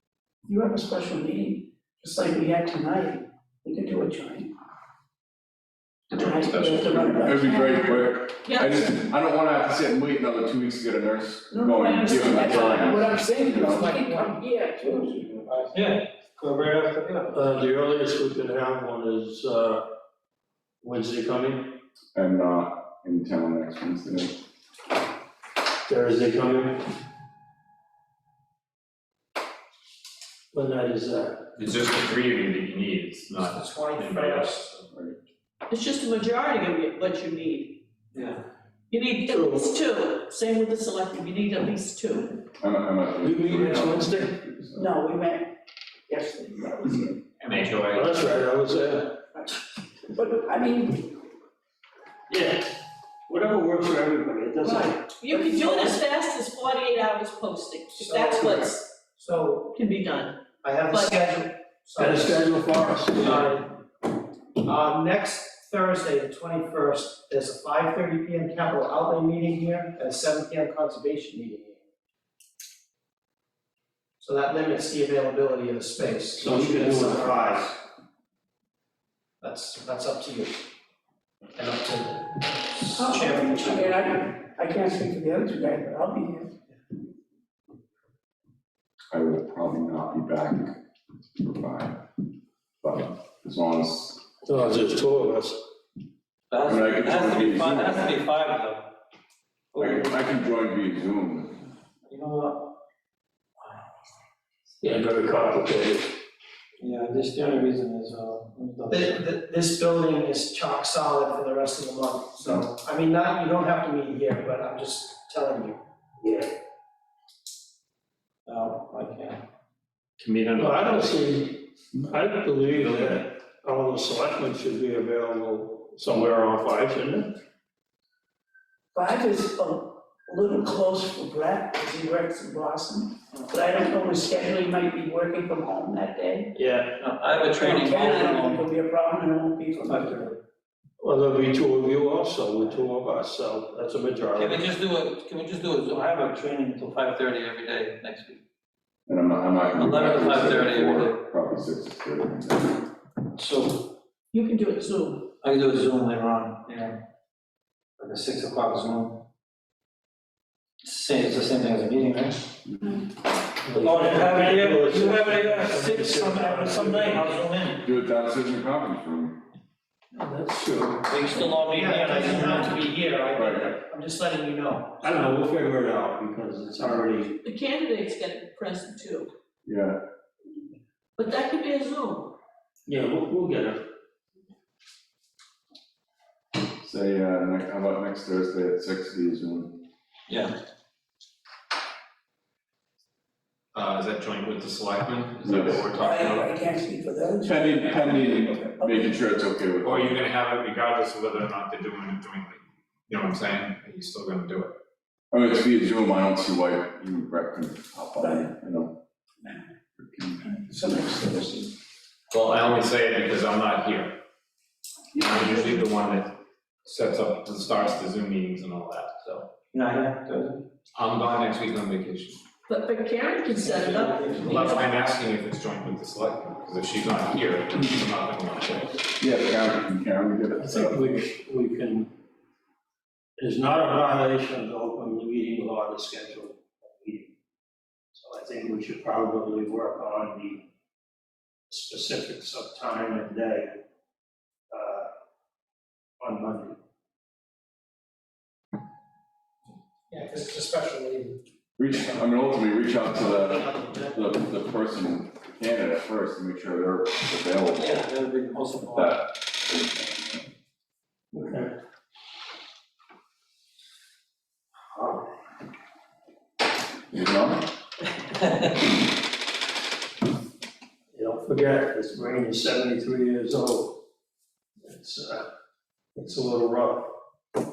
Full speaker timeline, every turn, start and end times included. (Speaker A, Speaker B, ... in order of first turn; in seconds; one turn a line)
Speaker A: 0.5-4.5
Speaker A: 6.1-8.2
Speaker B: 6.7-14.0
Speaker C: 8.4-8.9
Speaker A: 11.5-15.7
Speaker D: 15.7-17.4
Speaker E: 17.3-19.9
Speaker E: 20.8-21.8
Speaker B: 22.1-24.4
Speaker E: 25.9-26.8
Speaker E: 30.5-31.5
Speaker F: 31.6-34.9
Speaker G: 33.4-34.7
Speaker B: 34.9-35.2
Speaker C: 35.7-37.8
Speaker D: 38.1-38.4
Speaker C: 38.9-42.4
Speaker E: 39.3-39.7
Speaker B: 42.6-44.9
Speaker E: 43.2-44.4
Speaker A: 44.8-45.5
Speaker A: 46.1-47.2
Speaker F: 47.4-48.1
Speaker E: 47.9-49.2
Speaker A: 50.1-51.1
Speaker E: 52.3-52.7
Speaker E: 53.3-55.1
Speaker A: 54.6-55.9
Speaker C: 55.2-58.9
Speaker G: 58.0-59.8
Speaker C: 59.7-60.4
Speaker G: 60.6-63.7
Speaker C: 60.9-61.2
Speaker E: 62.0-63.5
Speaker G: 64.6-71.8
Speaker G: 74.2-77.8
Speaker E: 76.4-77.5
Speaker G: 79.4-80.7
Speaker G: 81.6-84.0
Speaker A: 83.0-86.5
Speaker B: 89.1-90.8
Speaker B: 91.4-92.0
Speaker B: 92.8-94.2
Speaker E: 94.5-95.6
Speaker D: 96.5-98.9
Speaker B: 96.6-98.2
Speaker D: 99.7-100.2
Speaker B: 99.8-101.6
Speaker D: 102.1-102.7
Speaker E: 104.8-106.1
Speaker D: 106.8-109.2
Speaker G: 108.9-115.8
Speaker E: 116.2-116.5
Speaker D: 118.5-119.4
Speaker F: 120.2-121.2
Speaker E: 120.6-127.3
Speaker A: 128.9-136.5
Speaker E: 136.6-137.0
Speaker D: 137.0-138.7
Speaker A: 137.4-140.3
Speaker D: 139.8-140.3
Speaker E: 141.0-144.7
Speaker D: 144.3-148.4
Speaker B: 149.1-152.8
Speaker D: 149.7-151.2
Speaker D: 153.4-153.9
Speaker C: 154.3-155.3
Speaker D: 155.4-157.0
Speaker D: 158.0-159.2
Speaker D: 160.8-162.4
Speaker E: 163.7-167.4
Speaker D: 163.7-167.8
Speaker B: 167.8-169.4
Speaker E: 170.1-171.1
Speaker D: 171.1-172.8
Speaker G: 171.7-175.2
Speaker B: 173.3-173.7
Speaker E: 175.0-177.4
Speaker C: 177.4-179.3
Speaker B: 179.7-180.0
Speaker C: 181.2-182.3
Speaker E: 182.9-183.8
Speaker B: 186.8-189.8
Speaker D: 190.3-190.5
Speaker F: 193.7-196.7
Speaker B: 195.4-195.8
Speaker A: 195.9-199.3
Speaker B: 197.4-200.2
Speaker F: 199.8-204.7
Speaker B: 205.3-208.9
Speaker A: 208.2-208.5
Speaker B: 210.0-210.4
Speaker A: 210.4-211.7
Speaker F: 212.3-214.2
Speaker F: 215.1-216.3
Speaker C: 215.2-215.5
Speaker F: 216.8-219.5
Speaker D: 219.7-220.6
Speaker F: 220.9-222.4
Speaker C: 222.7-224.9
Speaker F: 224.2-229.0
Speaker B: 229.2-231.3
Speaker E: 230.6-232.1
Speaker E: 233.4-237.3
Speaker E: 238.1-240.7
Speaker E: 241.7-243.8
Speaker E: 244.7-245.1
Speaker E: 246.2-246.8
Speaker G: 250.1-254.4
Speaker B: 251.8-258.0
Speaker D: 257.7-259.2
Speaker B: 258.9-260.4
Speaker E: 261.3-261.7
Speaker B: 267.1-267.7
Speaker D: 268.4-268.8
Speaker E: 271.1-274.0
Speaker E: 274.8-275.5
Speaker E: 276.1-277.1